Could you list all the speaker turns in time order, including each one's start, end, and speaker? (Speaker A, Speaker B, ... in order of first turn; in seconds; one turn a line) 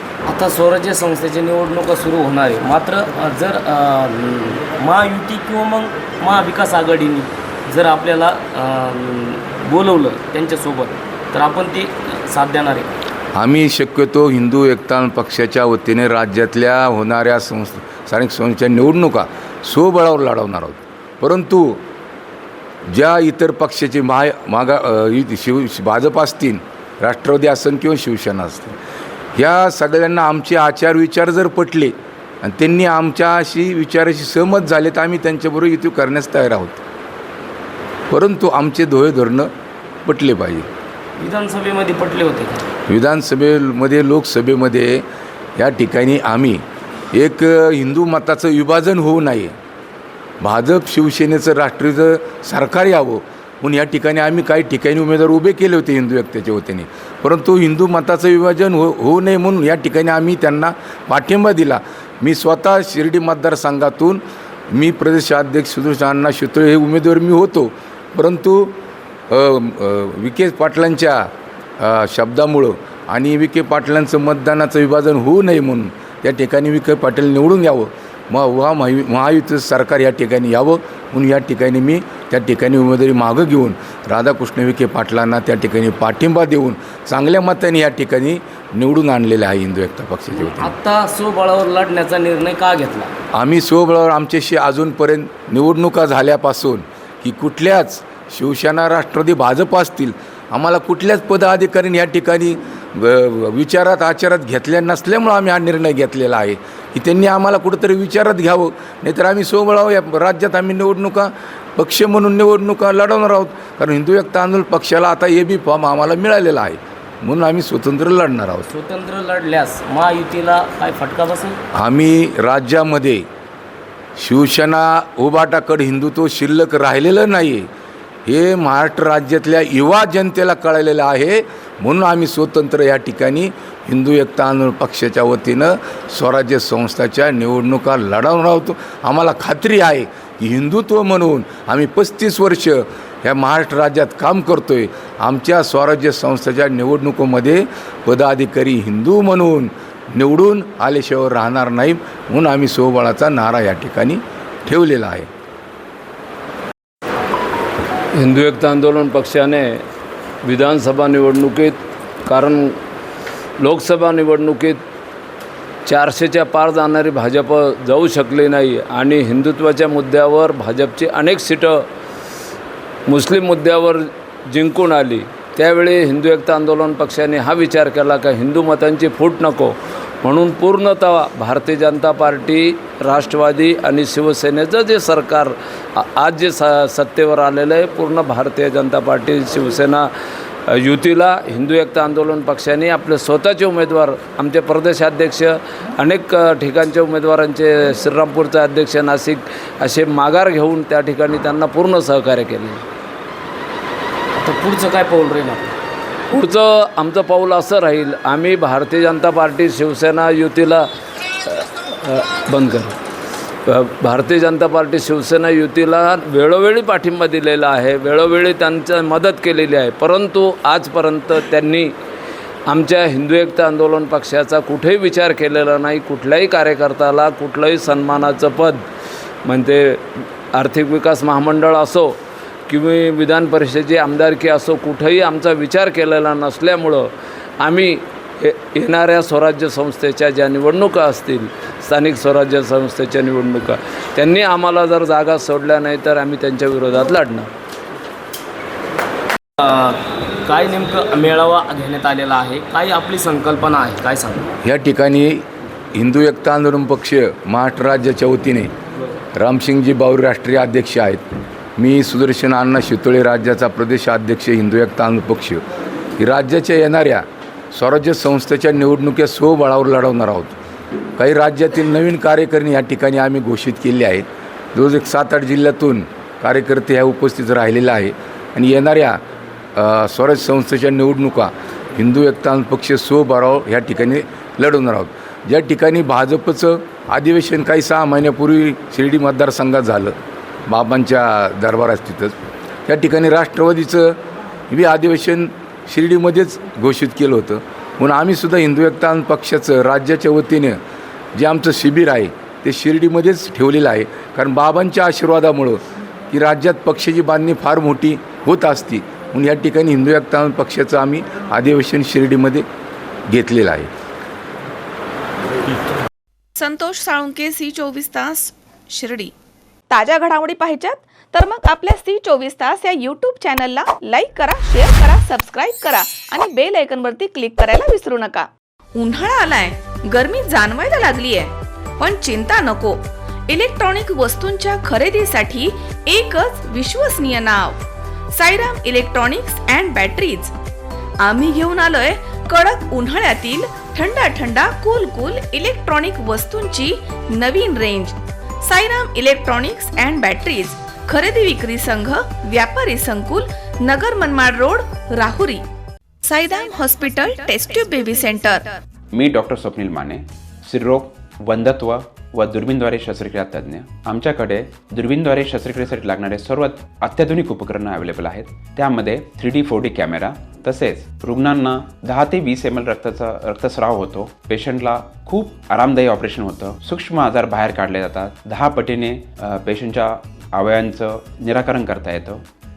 Speaker A: 0.2-12.9
Speaker B: 13.3-21.8
Speaker B: 22.9-28.8
Speaker B: 29.4-36.8
Speaker B: 38.1-39.5
Speaker B: 40.0-40.7
Speaker A: 41.2-42.7
Speaker B: 42.9-45.0
Speaker B: 45.6-49.5
Speaker B: 50.4-68.8
Speaker B: 69.3-90.7
Speaker A: 90.3-93.1
Speaker B: 93.3-118.7
Speaker A: 118.7-121.6
Speaker B: 121.7-123.2
Speaker B: 124.2-127.7
Speaker B: 128.3-155.3
Speaker C: 158.1-159.8
Speaker C: 160.4-162.8
Speaker C: 163.6-164.8
Speaker C: 165.8-171.8
Speaker C: 173.1-190.1
Speaker C: 190.7-202.8
Speaker A: 204.3-205.8
Speaker C: 206.3-210.8
Speaker C: 211.4-212.9
Speaker C: 213.7-221.9
Speaker C: 222.7-228.8
Speaker C: 229.4-232.2
Speaker C: 232.7-247.5
Speaker A: 249.6-254.5
Speaker B: 254.6-255.4
Speaker B: 255.9-258.7
Speaker B: 259.3-261.2
Speaker B: 261.8-265.6
Speaker B: 266.2-270.6
Speaker B: 271.2-279.2
Speaker B: 279.8-290.1
Speaker B: 290.7-292.3
Speaker B: 292.9-294.2
Speaker B: 294.7-300.8
Speaker B: 301.4-305.8
Speaker B: 306.3-312.6
Speaker B: 313.3-313.9
Speaker D: 316.6-319.3
Speaker D: 319.9-337.8
Speaker D: 338.3-340.5
Speaker D: 341.2-355.6
Speaker D: 356.2-358.7
Speaker E: 359.1-382.4